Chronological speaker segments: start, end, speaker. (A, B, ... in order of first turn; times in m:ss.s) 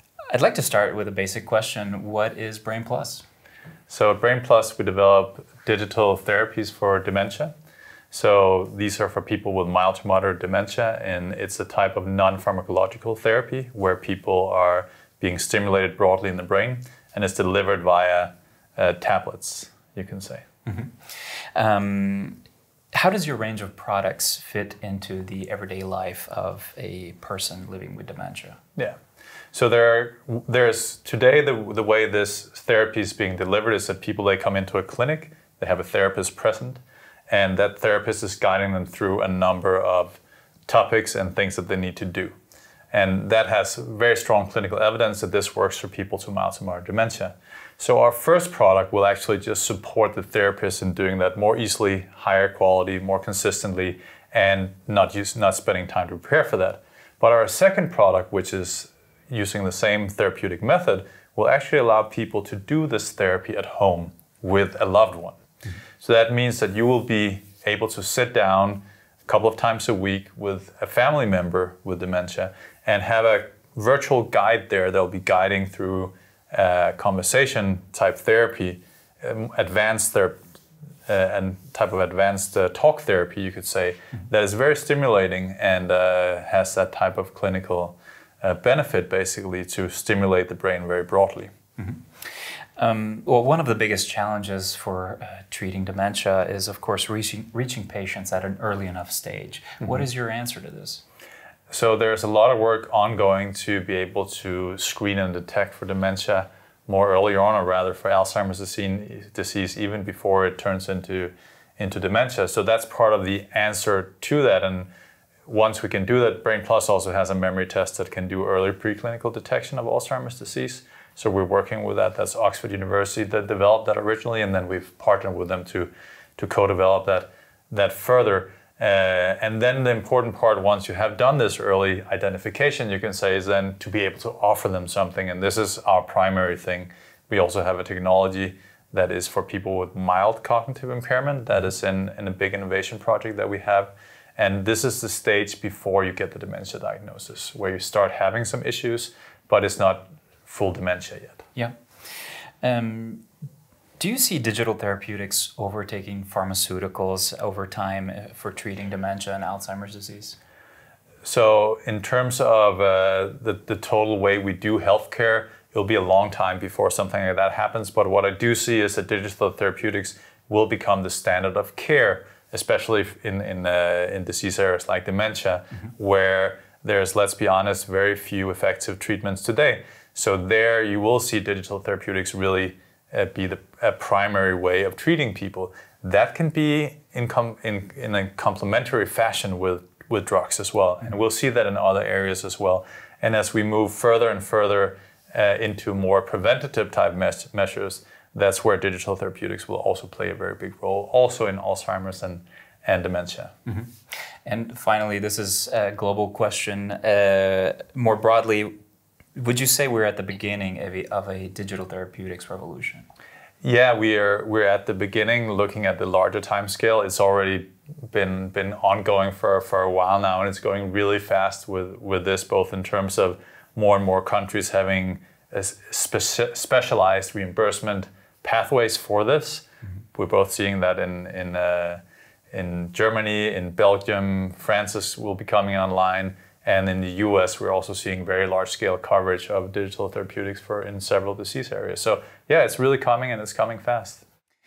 0:00.3-0:03.2 A
0:03.9-0:07.5 B
0:08.1-0:20.4 B
0:20.6-0:20.9 A
0:21.5-0:22.4 A
0:22.9-0:28.6 A
0:29.5-0:42.3 B
0:42.9-1:05.4 B
1:06.0-1:20.4 B
1:21.1-1:31.5 B
1:32.8-1:41.0 A
1:41.7-1:54.9 B
1:55.5-2:31.4 B
2:32.6-2:33.2 A
2:34.0-2:40.4 A
2:41.2-3:23.5 B
3:24.4-3:28.7 A
3:29.4-3:33.0 A
3:33.6-4:04.2 B